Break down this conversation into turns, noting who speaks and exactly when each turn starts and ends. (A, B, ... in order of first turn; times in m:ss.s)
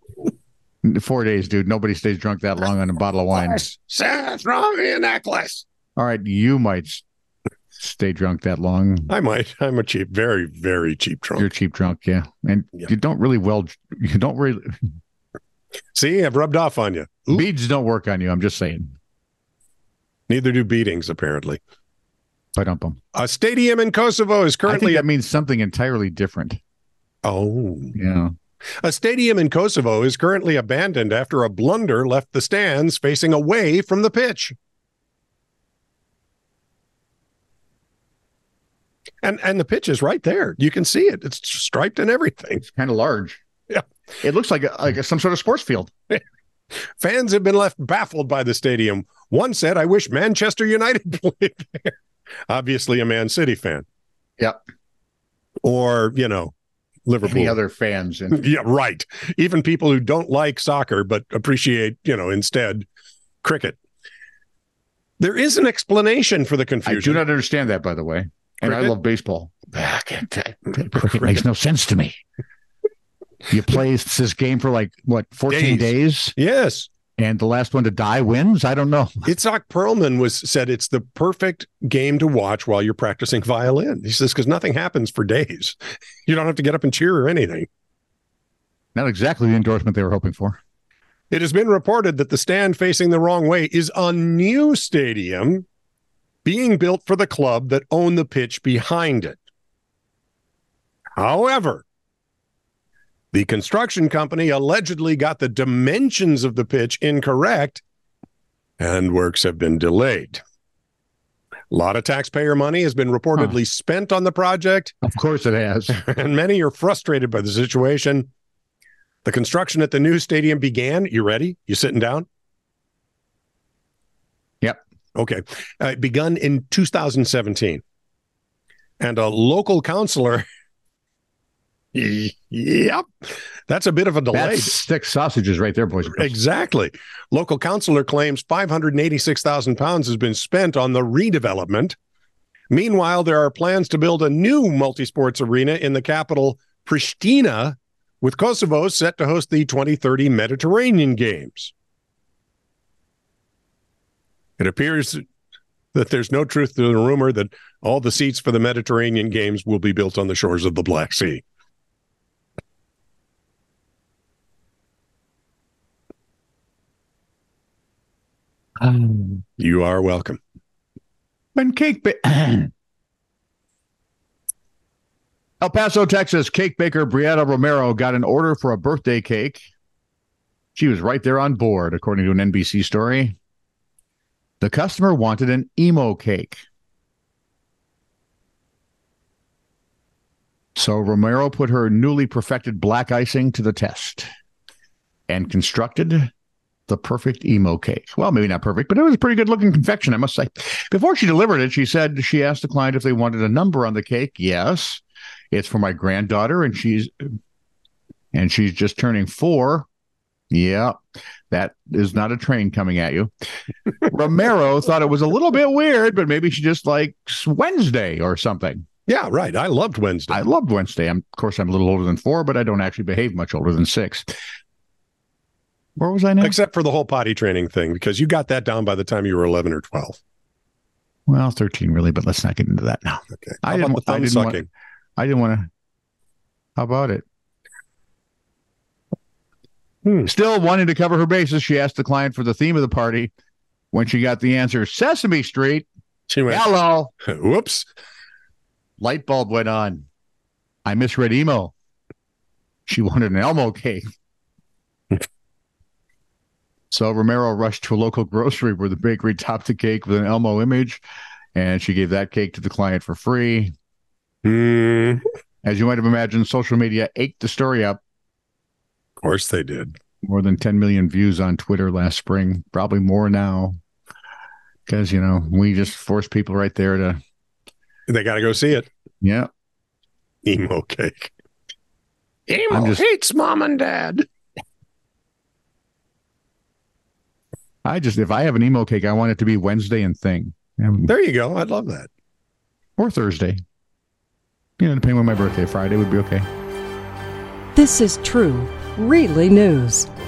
0:00.8-0:03.6 A
0:03.4-0:05.6 B
0:06.0-0:07.0 A
0:07.8-0:09.1 A
0:09.1-0:11.5 B
0:11.4-0:14.8 A
0:15.9-0:17.5 B
0:17.3-0:18.9 A
0:20.3-0:21.6 B
0:22.6-0:23.0 A
0:23.1-0:25.0 B
0:24.6-0:26.6 A
0:27.2-0:28.0 B
0:27.9-0:28.3 A
0:28.8-0:34.5 B
0:39.2-0:42.6 B
0:42.6-0:43.4 A
0:44.2-0:45.9 A
0:47.0-0:51.9 B
0:52.5-0:53.8 B
0:55.6-0:56.5 B
0:57.0-0:57.6 B
0:57.2-0:58.4 A
0:58.3-1:02.9 B
1:03.4-1:03.8 B
1:05.2-1:07.2 B
1:06.8-1:12.2 A
1:08.6-1:08.9 B
1:10.8-1:11.4 B
1:13.5-1:16.3 A
1:15.5-1:16.9 B
1:17.2-1:19.3 A
1:19.2-1:27.7 B
1:28.9-1:30.6 A
1:31.3-1:35.6 B
1:36.4-1:39.4 B
1:41.2-1:41.8 B
1:43.3-1:47.8 B
1:48.8-1:50.4 B
1:51.7-1:55.0 B
1:55.0-1:56.0 A
1:55.9-1:58.3 B
1:59.2-2:02.2 B
2:05.1-2:07.8 B
2:09.0-2:10.4 B
2:11.9-2:14.7 B
2:14.3-2:16.3 A
2:16.1-2:22.0 B
2:22.7-2:31.7 B
2:34.6-2:35.2 B
2:35.9-2:41.4 B
2:48.8-2:49.4 A
2:49.6-2:50.4 B
2:51.6-2:52.7 A
2:55.6-2:59.6 A
3:00.8-3:03.4 A
3:04.6-3:06.6 A
3:10.8-3:14.3 A
3:15.3-3:16.3 A
3:16.9-3:27.3 A
3:28.3-3:29.9 A
3:30.5-3:31.0 A
3:31.5-3:33.3 A
3:34.0-3:38.9 A
3:39.1-3:40.4 B
3:40.3-3:44.4 A
3:46.0-3:46.6 A
3:46.4-3:50.2 B
3:51.3-3:54.6 A
3:53.4-3:54.7 B
3:55.2-3:55.7 A
3:56.8-3:57.2 A
4:00.2-4:03.3 A
4:03.9-4:05.9 A
4:06.3-4:06.6 B
4:06.5-4:07.1 A
4:07.2-4:07.9 B
4:09.0-4:10.0 A
4:10.8-4:11.7 A
4:12.9-4:14.0 A
4:16.9-4:21.0 A
4:21.5-4:23.7 A
4:24.4-4:25.2 B
4:25.6-4:28.0 A
4:29.2-4:30.0 B
4:30.2-4:33.8 A
4:34.9-4:37.2 A
4:38.1-4:38.9 B
4:39.2-4:39.5 A
4:40.4-4:41.3 B
4:42.5-4:44.2 B
4:42.7-4:43.0 A
4:47.8-4:51.1 A
4:51.1-4:52.1 B
4:53.0-4:53.6 A
4:54.8-4:56.5 A
4:57.8-5:00.1 C